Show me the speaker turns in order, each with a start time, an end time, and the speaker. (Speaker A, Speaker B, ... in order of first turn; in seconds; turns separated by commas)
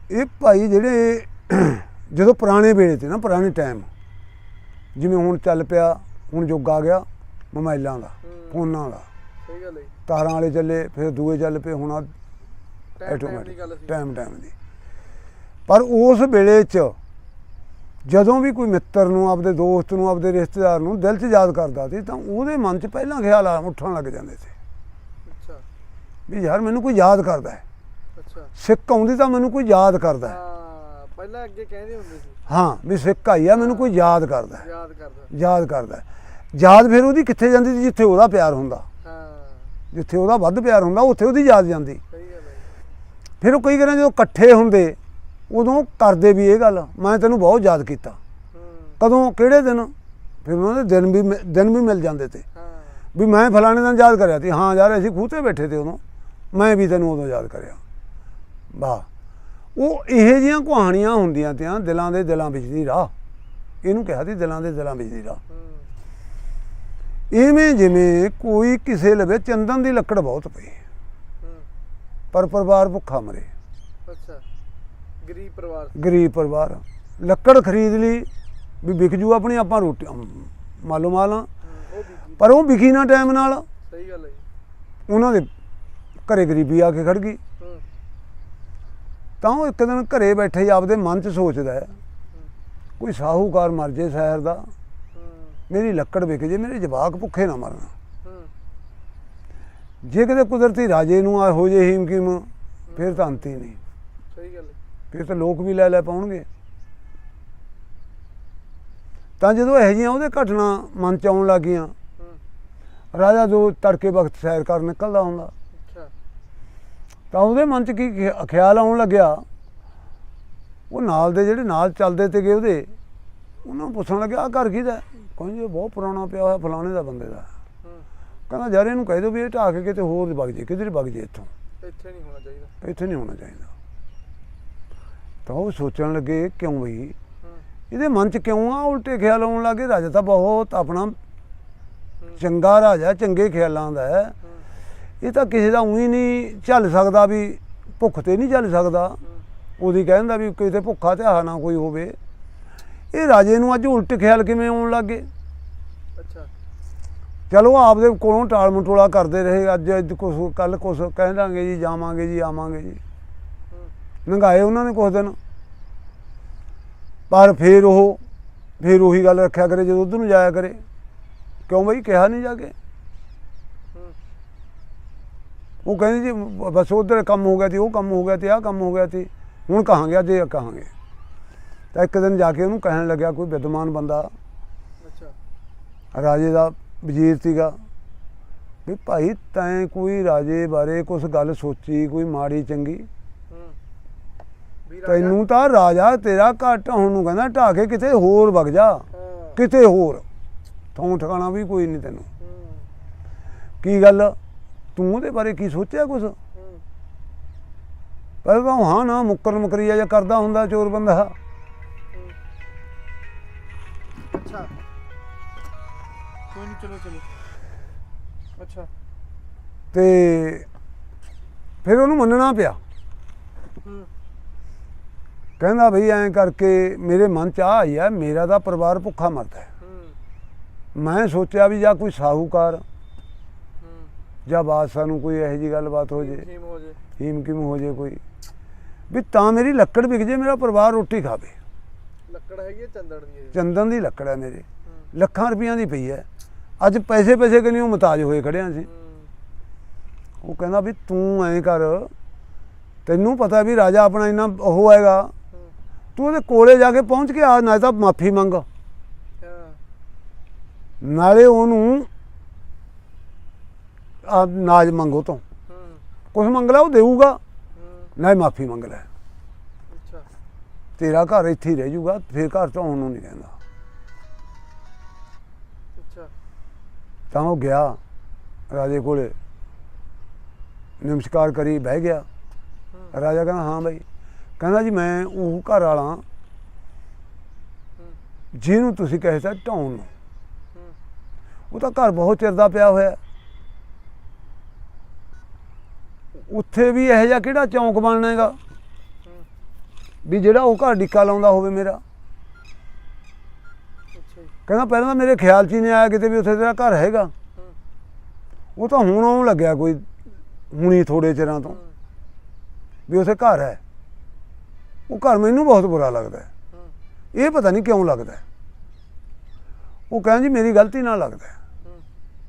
Speaker A: 0.1-3.9, Speaker A: 5.0-9.1, Speaker B: 8.2-8.6, Speaker B: 9.4-9.9, Speaker A: 10.1-12.1, Speaker B: 13.0-14.0, Speaker A: 13.0-14.5, Speaker A: 15.7-17.0, Speaker A: 18.1-24.5, Speaker B: 25.3-25.7, Speaker A: 26.3-27.6, Speaker B: 28.2-28.5, Speaker A: 28.6-30.4, Speaker B: 30.2-32.4, Speaker A: 32.5-34.7, Speaker B: 33.5-34.0, Speaker B: 34.6-35.3, Speaker A: 35.3-38.9, Speaker B: 39.0-39.8, Speaker A: 39.9-42.0, Speaker B: 42.1-42.7, Speaker A: 43.4-45.0, Speaker A: 45.5-48.2, Speaker B: 48.5-49.0, Speaker A: 49.0-49.9, Speaker A: 50.5-52.4, Speaker B: 52.6-53.0, Speaker A: 53.1-56.0, Speaker A: 56.5-57.8, Speaker A: 58.7-59.1, Speaker A: 59.8-63.1, Speaker A: 63.8-65.4, Speaker B: 65.5-65.9, Speaker A: 67.3-70.8, Speaker B: 71.4-71.7, Speaker A: 72.3-73.5, Speaker B: 74.1-74.5, Speaker B: 75.2-76.0, Speaker A: 76.0-78.3, Speaker A: 78.8-81.5, Speaker B: 81.6-82.4, Speaker A: 82.4-83.7, Speaker B: 83.9-84.5, Speaker A: 85.1-85.5, Speaker A: 86.3-87.4, Speaker B: 87.6-87.8, Speaker A: 89.4-92.0, Speaker A: 93.0-94.7, Speaker B: 95.1-95.6, Speaker A: 95.7-97.9, Speaker B: 98.2-98.5, Speaker A: 100.0-103.8, Speaker B: 102.9-103.3, Speaker B: 104.3-104.8, Speaker A: 105.1-106.5, Speaker A: 109.4-111.9, Speaker A: 113.1-115.5, Speaker B: 115.8-116.1, Speaker A: 117.3-119.4, Speaker A: 120.9-122.9, Speaker A: 123.6-127.5, Speaker A: 128.5-131.5, Speaker B: 131.8-132.7, Speaker A: 132.8-133.7, Speaker A: 135.5-137.2, Speaker A: 137.9-141.2, Speaker A: 142.4-144.3, Speaker A: 145.2-149.2, Speaker A: 149.8-152.2, Speaker A: 153.1-155.3, Speaker B: 156.2-156.5, Speaker A: 157.5-163.0, Speaker A: 164.3-165.4, Speaker A: 167.3-168.2, Speaker A: 168.8-170.8, Speaker A: 171.7-172.7, Speaker B: 173.9-174.2, Speaker A: 175.8-180.9, Speaker A: 181.9-184.3, Speaker B: 185.0-185.4, Speaker A: 186.1-187.8, Speaker A: 188.9-193.1, Speaker B: 193.5-193.8, Speaker B: 194.9-195.4, Speaker A: 195.0-200.2, Speaker B: 199.1-199.6, Speaker A: 200.9-202.3, Speaker B: 202.4-202.9, Speaker A: 203.8-204.4, Speaker A: 205.0-206.4, Speaker B: 206.6-206.8, Speaker A: 208.4-211.3, Speaker B: 214.3-214.8, Speaker B: 216.5-217.3, Speaker B: 218.6-218.9, Speaker A: 219.9-220.7, Speaker A: 221.8-222.8, Speaker B: 223.8-224.1, Speaker A: 225.6-229.7, Speaker B: 229.8-230.2, Speaker A: 230.9-232.8, Speaker B: 233.8-234.1, Speaker A: 234.5-236.5, Speaker B: 236.1-237.0, Speaker A: 237.2-238.2, Speaker A: 239.1-241.5, Speaker B: 242.3-243.6, Speaker A: 243.5-246.2, Speaker A: 246.8-248.9, Speaker B: 248.8-249.3, Speaker A: 250.4-252.1, Speaker A: 253.1-255.3, Speaker A: 256.2-258.7, Speaker B: 259.4-259.8, Speaker A: 261.0-262.1, Speaker A: 264.2-265.4, Speaker B: 265.7-266.0, Speaker A: 266.3-267.4, Speaker B: 267.8-268.1, Speaker A: 268.2-269.1, Speaker B: 269.9-270.3, Speaker A: 271.0-273.5, Speaker B: 276.0-276.3, Speaker A: 277.3-278.0, Speaker A: 278.7-279.4, Speaker A: 281.0-282.3, Speaker A: 283.1-284.0, Speaker A: 284.6-286.2, Speaker A: 288.5-290.1, Speaker A: 291.7-293.2, Speaker A: 296.5-298.6, Speaker A: 300.2-302.0, Speaker B: 304.1-304.5, Speaker A: 304.7-307.3, Speaker A: 308.8-310.1, Speaker A: 310.7-311.8, Speaker B: 311.7-311.9, Speaker A: 313.1-313.8, Speaker A: 315.1-316.5, Speaker A: 317.3-318.4, Speaker A: 320.1-321.5